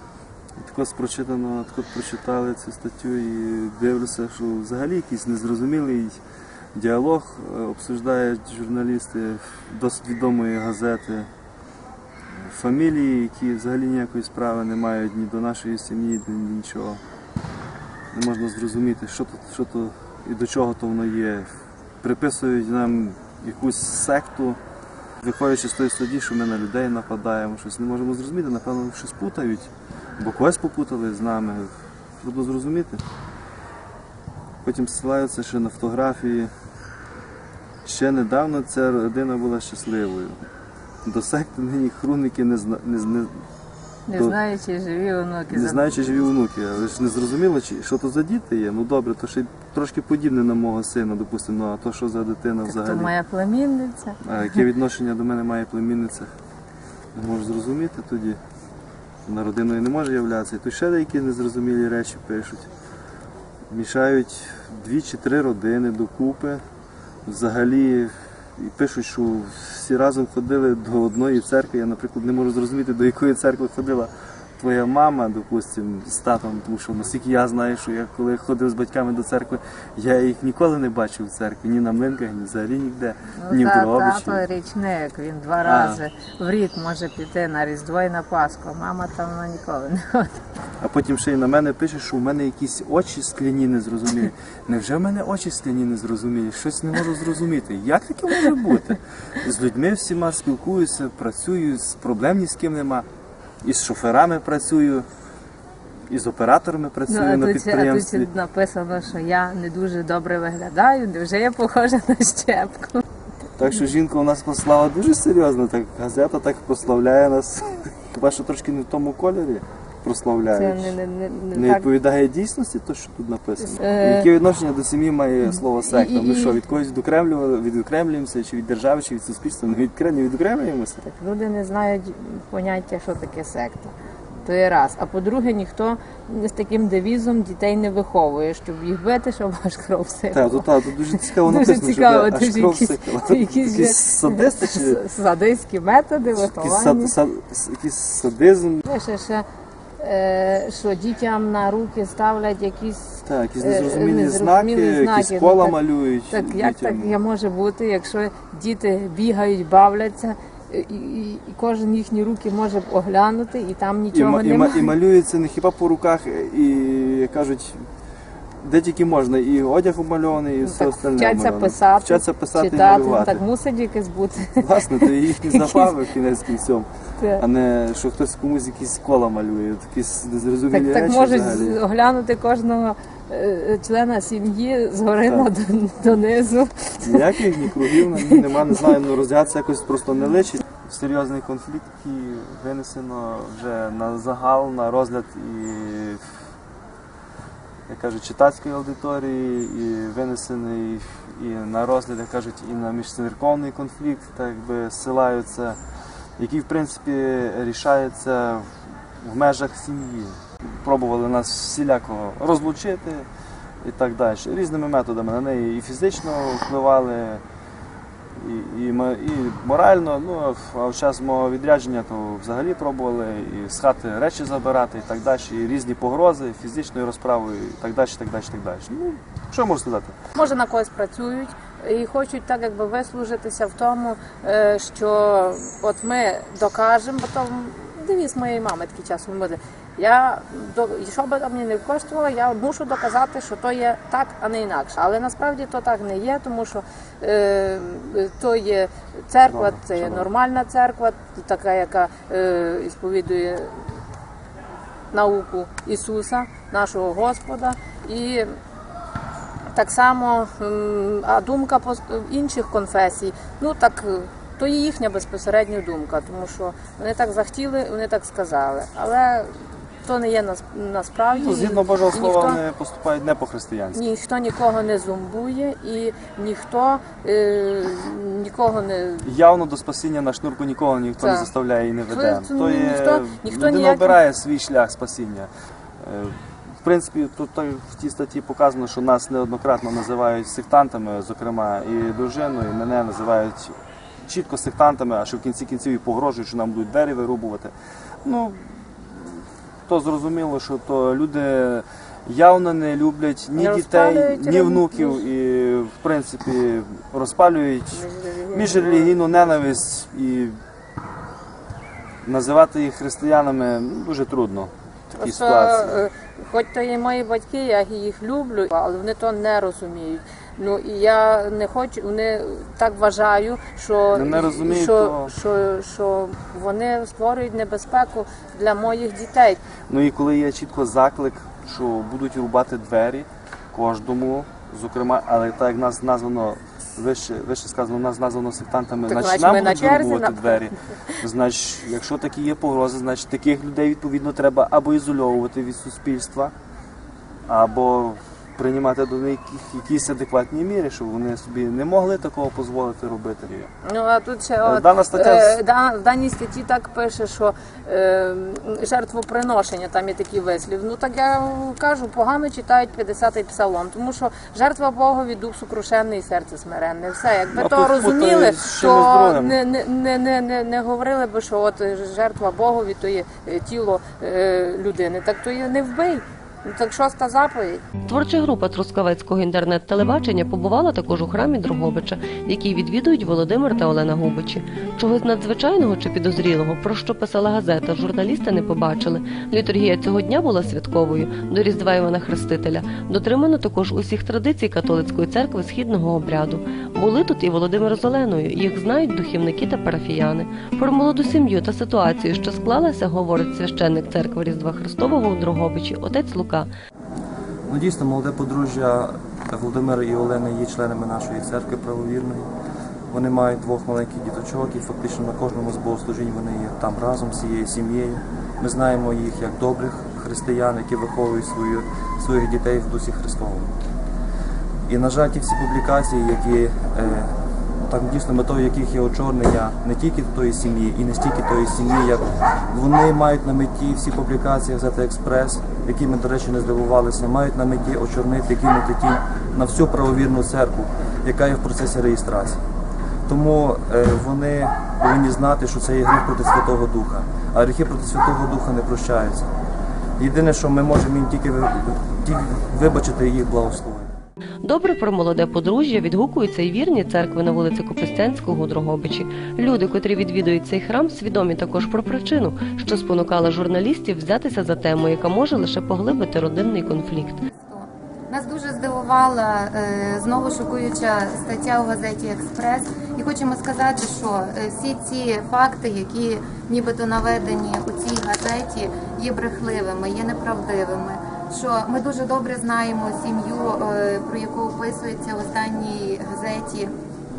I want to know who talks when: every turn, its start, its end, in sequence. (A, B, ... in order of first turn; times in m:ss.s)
0:00.6-0:06.2 A
0:06.8-0:11.3 A
0:12.3-0:17.0 A
0:18.1-0:21.5 A
0:22.0-0:24.6 A
0:25.2-0:31.7 A
0:32.2-0:33.0 A
0:34.6-0:36.5 A
0:37.8-0:40.4 A
0:41.0-0:43.3 A
0:44.1-0:46.3 B
0:44.1-0:44.4 A
0:45.5-0:53.1 A
0:52.6-0:54.6 B
0:54.2-0:56.3 A
0:57.2-0:58.4 A
0:59.3-1:02.7 A
1:03.7-1:06.6 A
1:07.3-1:24.4 A
1:23.4-1:30.4 B
1:25.6-1:26.0 A
1:30.8-1:43.1 A
1:43.6-1:45.1 A
1:46.1-1:48.3 A
1:47.1-1:53.0 B
1:53.6-2:01.0 A
2:00.5-2:01.9 B
2:01.5-2:11.1 A
2:03.6-2:04.3 B
2:05.6-2:06.6 B
2:11.0-2:27.2 B
2:20.3-2:25.0 A
2:26.3-2:28.8 A
2:28.8-2:29.4 B
2:30.0-2:35.8 B
2:33.2-2:37.2 A
2:36.3-2:45.0 B
2:44.1-2:47.8 A
2:48.6-2:53.4 A
2:50.6-2:55.9 B
2:54.6-3:01.8 A
2:57.2-2:57.4 B
3:00.7-3:08.9 B
3:05.2-3:05.5 A
3:07.0-3:16.2 A
3:17.9-3:25.8 A
3:26.4-3:28.7 A
3:29.2-3:33.3 A
3:33.8-3:37.4 A
3:38.4-3:50.2 A
3:50.4-4:13.8 B
4:09.5-4:10.3 A
4:15.1-4:18.5 B
4:19.8-4:29.5 B
4:30.0-4:32.6 B
4:31.3-4:34.0 A
4:33.9-4:39.2 B
4:39.2-4:45.5 A
4:41.2-4:41.5 B
4:42.0-4:44.2 B
4:46.0-5:10.6 A
5:03.6-5:05.2 B
5:07.9-5:09.8 B
5:12.2-5:16.0 A
5:15.2-5:29.6 B
5:24.1-5:25.3 A
5:29.9-5:46.5 A
5:39.1-5:40.7 B
5:47.5-5:53.7 A
5:53.8-6:17.8 B
5:54.6-5:55.6 A
6:07.5-6:09.6 A
6:18.1-6:46.7 C
6:47.7-6:52.5 D
6:53.1-7:03.7 D
7:04.9-7:22.6 D
7:23.3-7:29.5 D
7:30.2-7:34.1 D
7:34.6-7:47.4 C
7:47.5-8:06.9 E